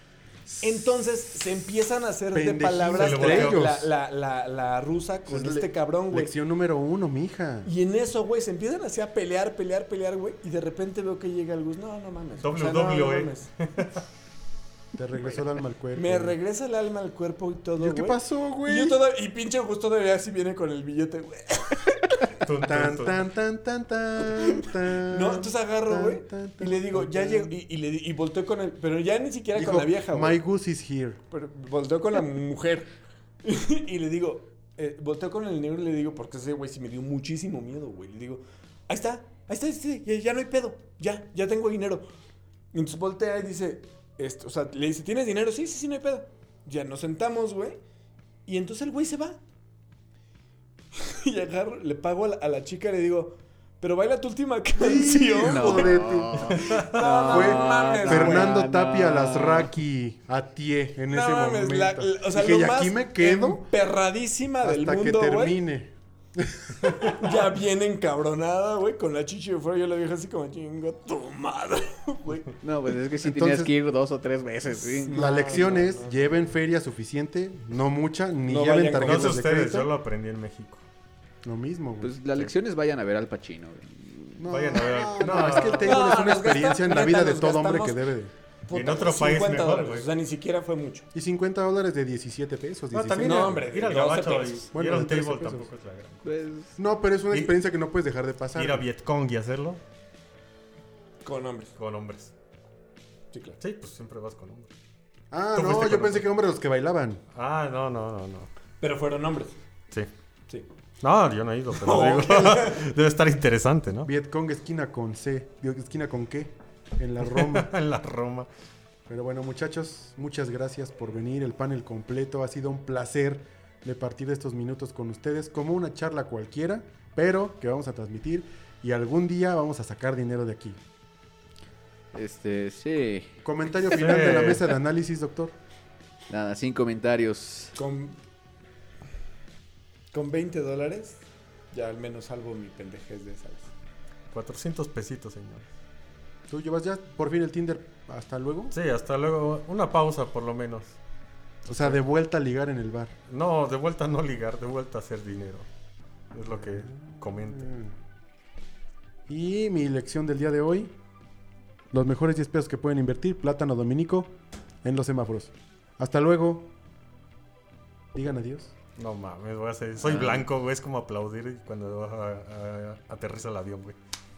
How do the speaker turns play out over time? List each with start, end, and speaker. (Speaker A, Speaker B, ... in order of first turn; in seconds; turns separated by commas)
Speaker A: 0.5-0.8, Speaker B: 0.6-6.3, Speaker A: 2.3-3.9, Speaker C: 2.9-3.7, Speaker A: 5.3-7.7, Speaker B: 7.6-13.5, Speaker C: 12.4-13.9, Speaker A: 14.9-16.4, Speaker B: 15.9-22.3, Speaker A: 17.8-19.0, Speaker C: 22.4-23.2, Speaker A: 22.6-27.6, Speaker B: 24.2-30.4, Speaker A: 29.5-31.2, Speaker B: 31.3-32.9, Speaker B: 33.4-42.0, Speaker B: 42.7-47.8, Speaker B: 48.5-49.4, Speaker B: 50.9-56.0, Speaker A: 54.8-63.6, Speaker D: 55.4-59.7, Speaker B: 56.5-58.6, Speaker B: 61.1-65.6, Speaker A: 64.6-67.4, Speaker B: 67.0-72.6, Speaker D: 72.6-75.4, Speaker A: 73.2-73.7, Speaker B: 75.0-76.2, Speaker A: 75.1-79.9, Speaker B: 78.5-79.5, Speaker C: 79.0-80.8, Speaker A: 81.4-82.5, Speaker D: 82.0-84.4, Speaker A: 84.4-88.3, Speaker C: 84.5-86.1, Speaker B: 85.8-88.0, Speaker B: 88.7-91.1, Speaker C: 88.7-90.1, Speaker A: 91.1-93.7, Speaker C: 92.9-96.2, Speaker B: 93.2-94.7, Speaker A: 94.7-95.7, Speaker D: 96.2-96.7, Speaker A: 96.8-98.8, Speaker C: 98.5-99.8, Speaker B: 101.2-101.7, Speaker C: 101.8-102.3, Speaker B: 103.3-103.6, Speaker C: 103.6-104.7, Speaker A: 105.3-107.2, Speaker C: 105.5-106.3, Speaker C: 107.3-108.5, Speaker B: 108.8-109.6, Speaker C: 111.0-114.1, Speaker B: 111.7-112.8, Speaker A: 114.0-117.7, Speaker C: 117.2-118.5, Speaker A: 119.1-130.8, Speaker D: 132.1-133.3, Speaker A: 133.4-135.6, Speaker C: 133.9-134.7, Speaker D: 136.3-137.7, Speaker B: 137.8-138.2, Speaker B: 140.1-143.7, Speaker C: 144.3-145.7, Speaker A: 146.5-148.7, Speaker C: 148.7-151.0, Speaker A: 151.6-153.1, Speaker C: 151.7-152.0, Speaker C: 153.3-155.7, Speaker C: 156.3-157.7, Speaker A: 156.5-157.9, Speaker A: 159.3-160.9, Speaker A: 161.9-166.7, Speaker A: 168.1-168.7, Speaker C: 168.9-174.0, Speaker D: 170.1-170.4